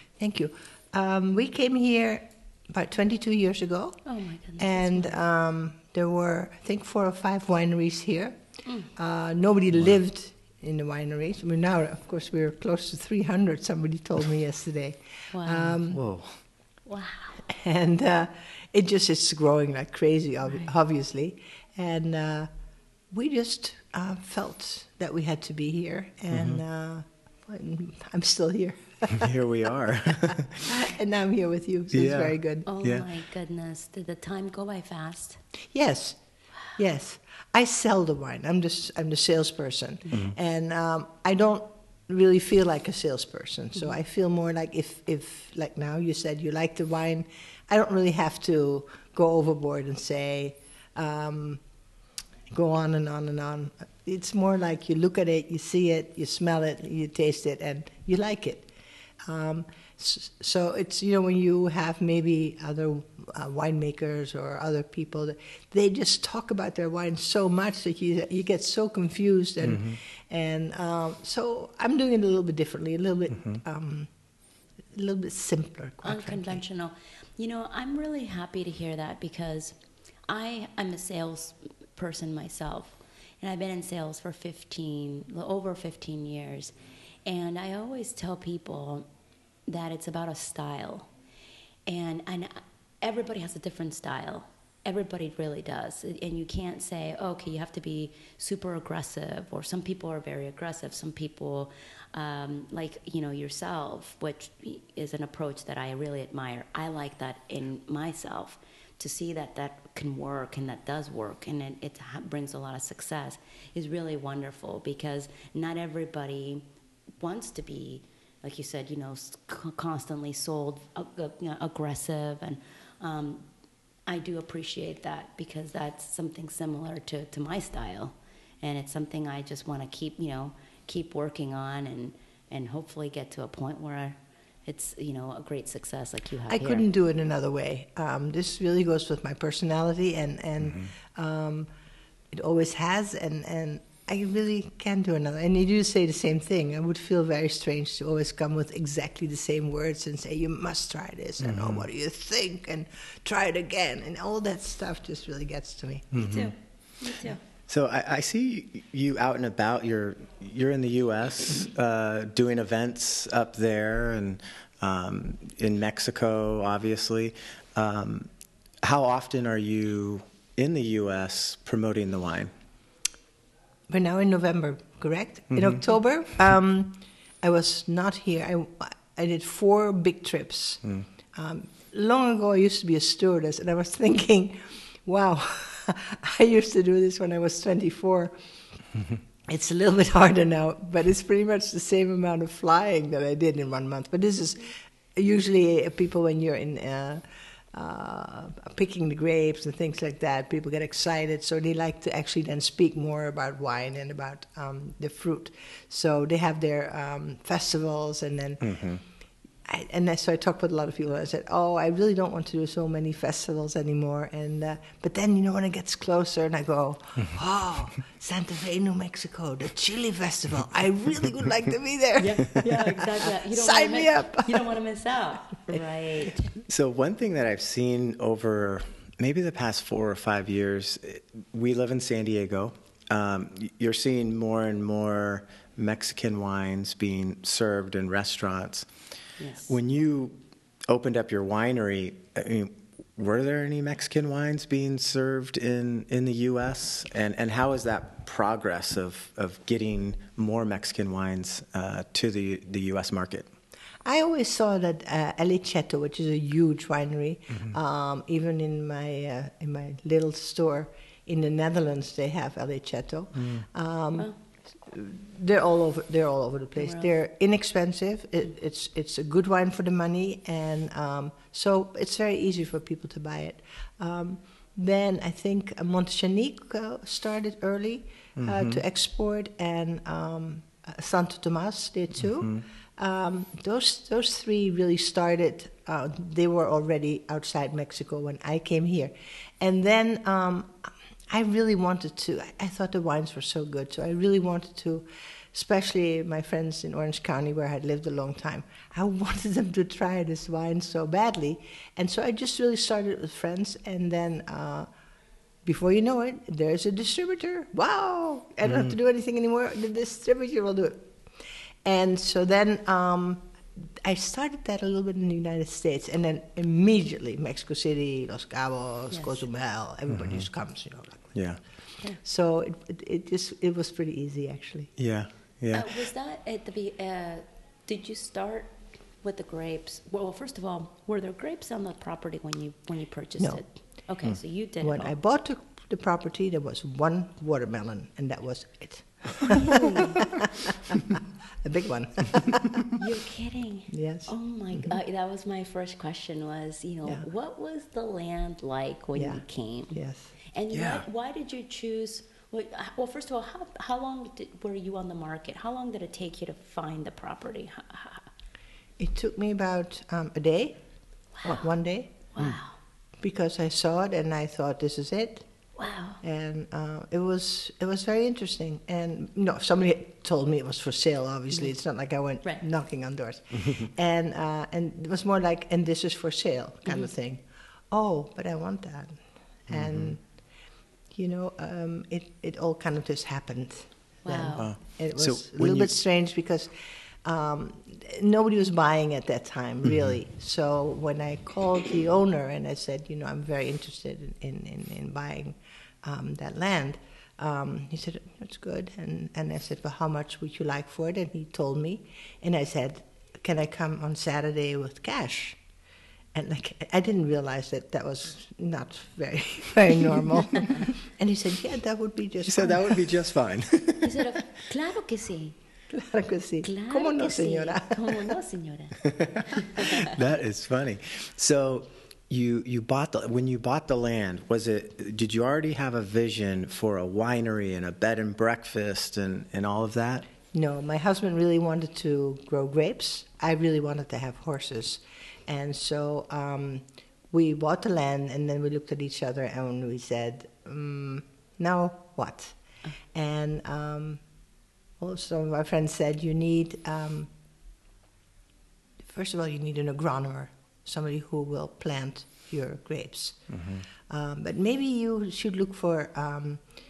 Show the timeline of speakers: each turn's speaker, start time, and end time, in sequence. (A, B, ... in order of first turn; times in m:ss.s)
0:00.2-0:04.0 A
0:04.0-0:05.2 B
0:04.6-0:08.4 A
0:08.6-0:08.9 B
0:09.0-0:16.0 A
0:15.3-0:15.8 B
0:15.9-0:16.4 C
0:16.8-0:17.4 B
0:17.4-0:22.5 A
0:23.1-0:29.3 A
0:26.3-0:26.6 C
0:29.1-0:30.8 C
0:30.3-0:32.7 A
0:31.9-0:33.1 C
0:32.6-0:35.4 B
0:35.7-0:36.2 A
0:36.7-0:51.6 A
0:52.5-0:58.7 A
0:59.2-1:14.1 A
1:09.6-1:10.0 C
1:14.9-1:16.6 A
1:16.0-1:26.7 B
1:27.2-1:29.1 B
1:29.7-1:31.1 B
1:31.9-1:56.6 B
1:57.2-2:03.4 B
2:04.1-2:16.8 B
2:16.5-2:21.7 A
2:22.3-2:36.2 A
2:31.4-2:31.8 C
2:36.1-2:36.5 C
2:36.2-2:37.4 B
2:37.7-2:48.3 C
2:48.8-2:52.5 C
2:53.9-3:00.8 A
2:55.5-2:55.8 C
3:01.3-3:08.3 A
3:09.5-3:28.8 A
3:28.6-3:29.0 C
3:29.6-3:44.7 A
3:42.2-3:46.5 B
3:46.6-3:58.9 C
3:59.4-3:59.7 B
3:59.7-4:13.5 C
4:14.0-5:04.9 A
4:23.4-4:23.6 C
4:26.8-4:27.1 B
4:38.4-4:38.8 C
5:05.6-5:11.1 A
5:08.6-5:08.9 C
5:11.8-5:21.6 A
5:19.1-5:19.4 B
5:20.1-5:20.4 C
5:21.3-5:21.6 C
5:22.2-5:24.9 A
5:25.0-5:25.9 C
5:25.7-5:35.1 B
5:33.4-5:33.7 A
5:34.8-5:42.9 A
5:39.4-5:40.5 B
5:43.0-5:50.0 B
5:43.9-5:44.3 A
5:49.1-5:50.3 A
5:50.5-5:58.2 B
5:50.7-5:51.0 C
5:59.0-6:00.8 A
6:01.4-6:01.7 B
6:01.4-6:02.1 A
6:02.3-6:02.8 B
6:03.2-6:05.5 A
6:05.8-6:06.2 B
6:06.2-6:20.5 A
6:19.7-6:20.1 C
6:21.1-6:26.7 A
6:24.2-6:24.7 B
6:24.6-6:25.9 C
6:27.2-6:45.6 A
6:46.3-6:53.1 A
6:52.4-6:54.3 C
6:54.0-6:55.6 B
6:55.9-6:58.2 A
6:56.6-7:00.1 B
7:00.0-7:10.2 C
7:10.5-7:22.6 A
7:23.1-7:24.2 A
7:25.0-7:27.3 A
7:29.0-7:36.6 A
7:33.5-7:33.8 C